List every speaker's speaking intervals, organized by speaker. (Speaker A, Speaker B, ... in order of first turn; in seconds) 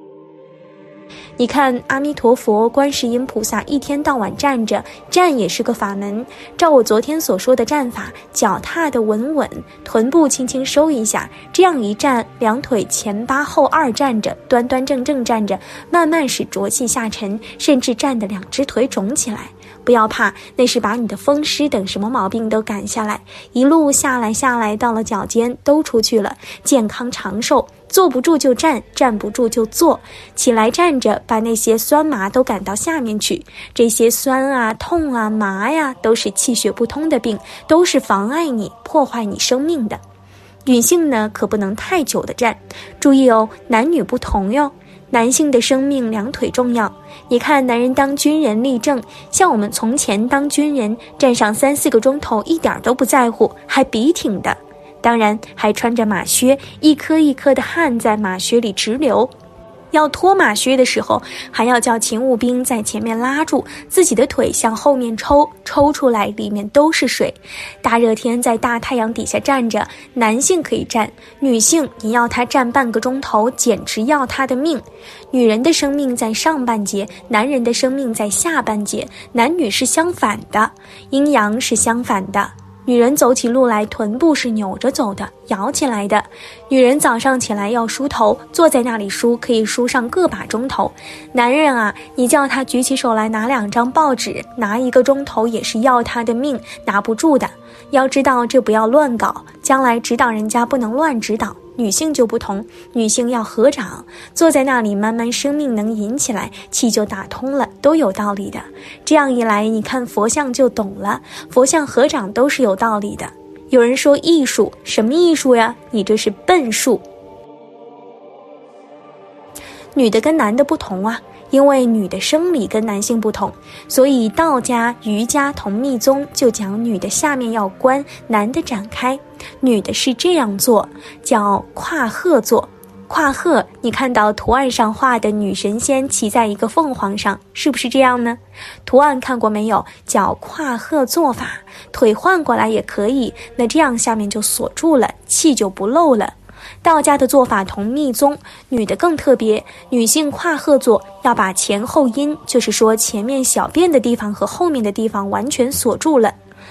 Speaker A: 1.4-40.0, 40.6-59.3, 59.9-117.0, 119.9-156.3